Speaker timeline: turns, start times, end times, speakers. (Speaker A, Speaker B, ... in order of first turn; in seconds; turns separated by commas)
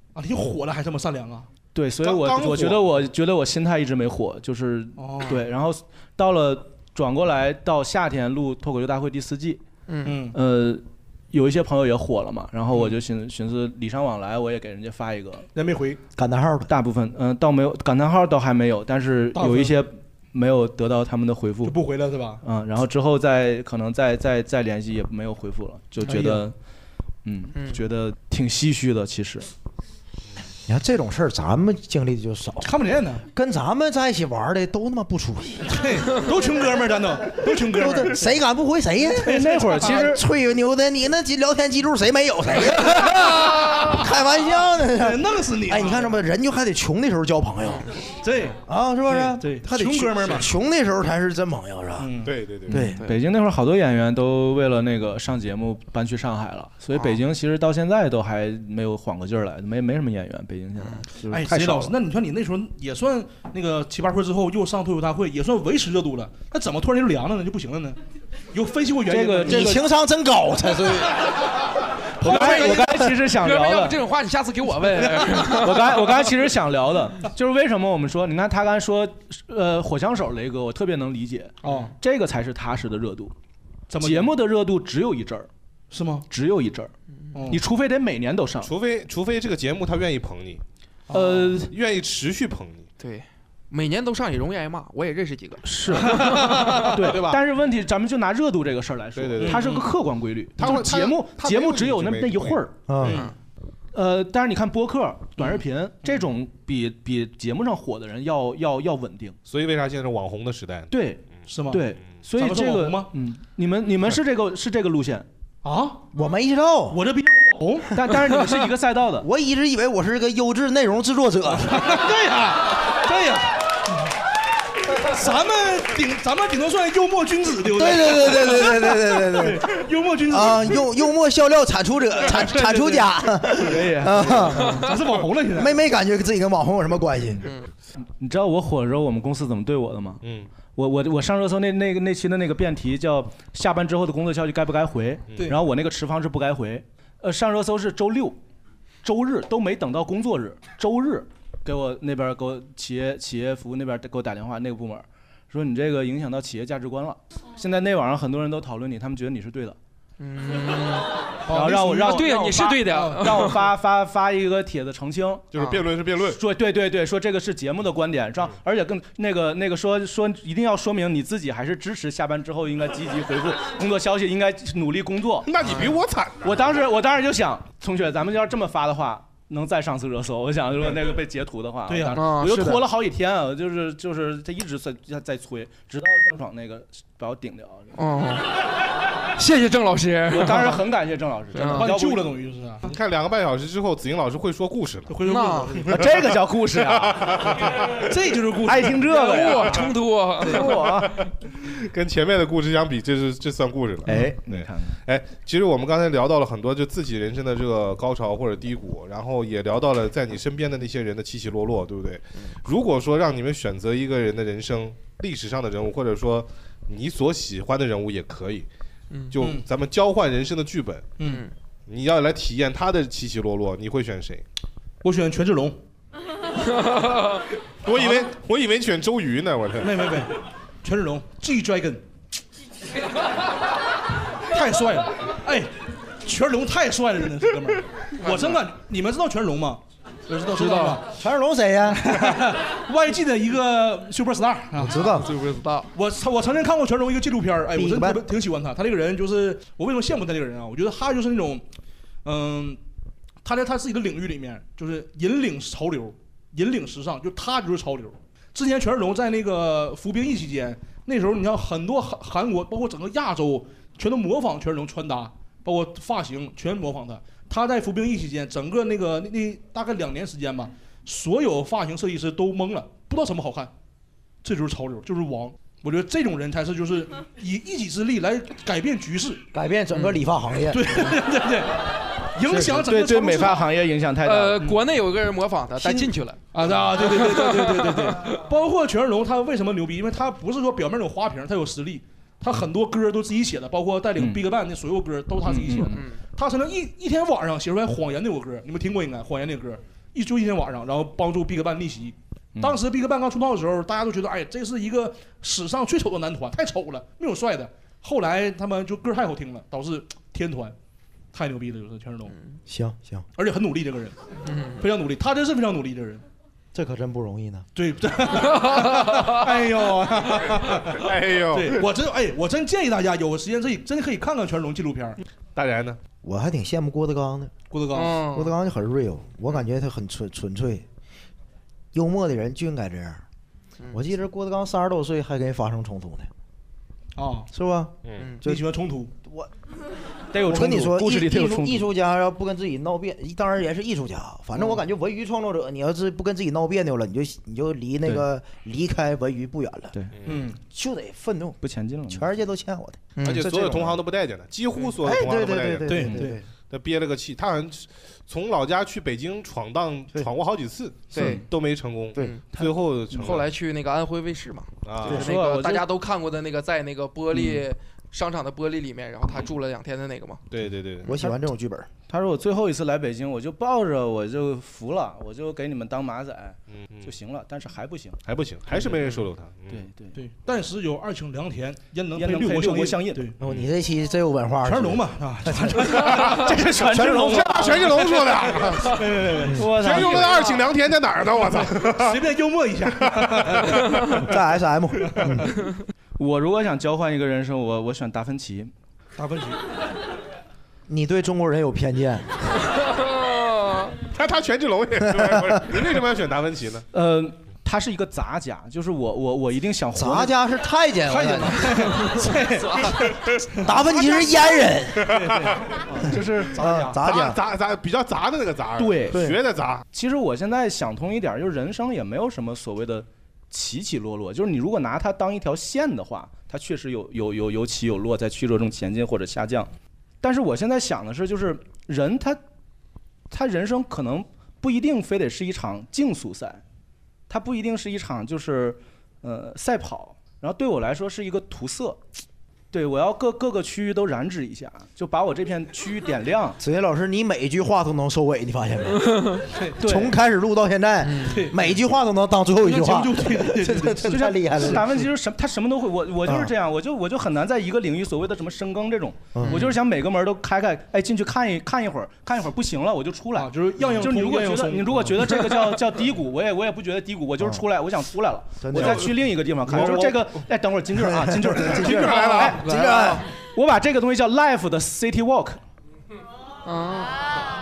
Speaker A: 0.1-1.5, Speaker B: 1.7-9.6, Speaker C: 2.0-2.9, Speaker A: 5.0-5.4, Speaker D: 9.9-10.2, Speaker A: 10.0-10.3, Speaker B: 10.3-15.5, Speaker A: 15.5-16.0, Speaker E: 16.1-16.7, Speaker B: 16.7-21.8, Speaker A: 19.3-19.8, Speaker A: 21.6-22.4, Speaker B: 22.4-26.5, Speaker E: 26.1-26.4, Speaker B: 27.2-29.5, Speaker E: 30.7-32.7, Speaker A: 32.6-33.2, Speaker E: 33.3-35.8, Speaker A: 35.7-38.3, Speaker E: 37.5-47.9, Speaker A: 39.1-40.1, Speaker B: 39.2-40.2, Speaker A: 44.9-46.3, Speaker A: 48.2-50.5, Speaker E: 48.6-52.1, Speaker A: 52.0-52.3, Speaker C: 52.2-52.8, Speaker B: 52.7-61.9, Speaker E: 52.7-53.0, Speaker D: 56.9-57.2, Speaker A: 61.3-68.0, Speaker A: 68.5-69.8, Speaker B: 69.1-69.8, Speaker E: 69.4-71.2, Speaker A: 72.2-72.9, Speaker B: 72.2-74.0, Speaker E: 72.3-73.0, Speaker D: 73.3-75.8, Speaker B: 75.5-83.3, Speaker A: 81.6-81.9, Speaker A: 83.9-84.3, Speaker B: 84.0-85.5, Speaker A: 85.9-86.3, Speaker B: 86.3-86.9, Speaker A: 87.3-87.6, Speaker B: 87.5-88.7, Speaker C: 88.6-90.6, Speaker A: 91.1-91.5, Speaker B: 91.1-91.7, Speaker C: 91.6-92.9, Speaker D: 93.0-95.7, Speaker B: 95.6-102.8, Speaker A: 95.9-96.9, Speaker C: 97.0-97.4, Speaker C: 99.2-99.8, Speaker A: 99.4-99.9, Speaker C: 100.6-102.6, Speaker E: 102.9-103.2, Speaker A: 103.0-103.3, Speaker B: 103.9-109.4, Speaker C: 109.5-110.9, Speaker B: 110.9-115.3, Speaker A: 111.5-111.8, Speaker A: 112.3-113.1, Speaker A: 115.6-116.0, Speaker E: 116.1-117.0, Speaker A: 116.9-117.9, Speaker B: 117.9-119.3, Speaker E: 119.2-121.9, Speaker A: 121.5-123.5, Speaker A: 124.9-130.9, Speaker E: 127.7-129.7, Speaker E: 130.3-134.9, Speaker A: 132.2-133.1, Speaker B: 133.6-134.8, Speaker A: 134.7-135.8, Speaker E: 135.5-137.5, Speaker B: 138.2-140.2, Speaker C: 140.2-140.5, Speaker B: 140.7-148.4, Speaker B: 149.0-159.8, Speaker D: 160.2-161.1, Speaker A: 161.5-163.5, Speaker B: 161.5-165.5, Speaker D: 162.0-163.5, Speaker C: 165.5-166.4, Speaker B: 166.3-175.5, Speaker C: 175.4-176.8, Speaker D: 175.6-175.9, Speaker B: 176.4-187.9, Speaker A: 181.9-182.2, Speaker D: 182.1-182.9, Speaker D: 187.9-188.6, Speaker D: 189.3-190.8, Speaker B: 190.3-192.2, Speaker D: 191.5-191.9, Speaker A: 191.6-192.9, Speaker C: 192.8-195.2, Speaker A: 195.1-196.1, Speaker D: 195.2-195.8, Speaker B: 195.8-197.5, Speaker C: 195.9-196.3, Speaker C: 196.9-198.1, Speaker A: 198.1-199.5, Speaker B: 198.6-199.9, Speaker D: 199.1-200.7, Speaker C: 199.7-218.7, Speaker B: 200.4-201.2, Speaker B: 204.1-205.0, Speaker C: 219.3-221.1, Speaker A: 219.4-219.6, Speaker D: 221.2-221.5, Speaker C: 221.9-224.4, Speaker A: 225.0-225.8, Speaker C: 227.8-230.1, Speaker A: 227.9-228.2, Speaker A: 229.8-232.0, Speaker A: 234.5-235.7, Speaker A: 236.2-241.1, Speaker D: 238.2-238.6, Speaker D: 240.5-241.0, Speaker E: 241.1-242.5, Speaker A: 241.9-245.0, Speaker E: 244.8-245.4, Speaker D: 245.2-245.9, Speaker A: 245.9-251.6, Speaker E: 247.7-248.2, Speaker A: 252.2-252.8, Speaker A: 253.4-273.7, Speaker A: 274.4-279.4, Speaker E: 279.5-281.1, Speaker A: 280.7-283.7, Speaker E: 282.4-282.9, Speaker B: 282.8-284.7, Speaker D: 284.2-286.4, Speaker E: 285.8-286.1, Speaker A: 286.5-310.7, Speaker D: 287.0-288.4, Speaker B: 294.2-294.4, Speaker B: 295.4-296.0, Speaker D: 295.9-296.2, Speaker A: 311.3-312.3, Speaker E: 312.7-313.2, Speaker A: 313.4-314.3, Speaker D: 314.4-314.8, Speaker A: 314.8-316.2, Speaker E: 316.7-317.7, Speaker A: 317.8-325.2, Speaker C: 320.9-321.8, Speaker C: 325.5-326.0, Speaker E: 326.2-327.5, Speaker A: 327.7-328.2, Speaker D: 327.9-328.5, Speaker E: 328.3-330.8, Speaker E: 331.9-333.2, Speaker E: 333.9-336.3, Speaker A: 337.1-337.5, Speaker E: 337.5-338.6, Speaker C: 338.0-338.3, Speaker A: 338.4-339.1, Speaker E: 339.2-339.5, Speaker B: 340.3-341.9, Speaker E: 340.4-349.9, Speaker A: 350.2-350.6, Speaker E: 350.7-354.0, Speaker B: 351.6-352.3, Speaker D: 353.2-353.5, Speaker C: 353.2-356.1, Speaker E: 355.0-356.4, Speaker A: 355.9-356.4, Speaker B: 355.9-356.3, Speaker C: 356.7-363.5, Speaker D: 361.1-361.4, Speaker B: 361.1-361.4, Speaker D: 362.2-362.4, Speaker B: 362.5-363.3, Speaker D: 363.2-370.4, Speaker C: 364.8-365.3, Speaker B: 365.0-365.9, Speaker B: 367.3-367.6, Speaker C: 370.5-371.1, Speaker E: 371.0-371.9, Speaker B: 372.1-378.2, Speaker C: 376.7-377.1, Speaker C: 378.2-379.8, Speaker B: 379.7-380.2, Speaker A: 380.1-383.4, Speaker B: 382.1-383.2, Speaker E: 383.4-388.0, Speaker C: 383.4-383.7, Speaker A: 384.6-386.5, Speaker B: 386.1-387.8, Speaker C: 387.0-389.0, Speaker A: 388.8-389.6, Speaker B: 389.5-390.4, Speaker C: 389.7-392.2, Speaker D: 390.2-390.5, Speaker A: 391.9-394.2, Speaker C: 393.0-393.7, Speaker E: 394.1-395.5, Speaker A: 395.0-395.5, Speaker B: 396.2-398.7, Speaker A: 399.1-399.6, Speaker E: 400.9-402.3, Speaker D: 402.9-403.9, Speaker C: 404.1-406.9, Speaker E: 405.1-405.6, Speaker B: 406.9-410.3, Speaker E: 409.9-412.1, Speaker A: 411.1-413.7, Speaker E: 413.6-415.1, Speaker C: 415.0-415.6, Speaker A: 415.0-417.0, Speaker B: 416.0-416.6, Speaker E: 416.5-417.4, Speaker C: 417.0-419.9, Speaker B: 418.8-419.2, Speaker E: 419.1-419.4, Speaker B: 419.9-432.4, Speaker B: 433.3-436.6, Speaker B: 437.3-442.0, Speaker B: 442.7-446.6, Speaker E: 446.6-455.1, Speaker B: 449.8-450.1, Speaker D: 451.1-451.4, Speaker A: 451.2-451.7, Speaker A: 452.6-454.9, Speaker B: 454.1-472.7, Speaker E: 456.2-456.5, Speaker E: 459.3-459.6, Speaker A: 463.3-465.1, Speaker E: 468.6-470.2, Speaker C: 468.7-469.0, Speaker C: 469.7-470.1, Speaker E: 470.9-473.3, Speaker C: 471.7-472.7, Speaker D: 472.8-473.2, Speaker B: 473.5-475.6, Speaker D: 476.6-477.4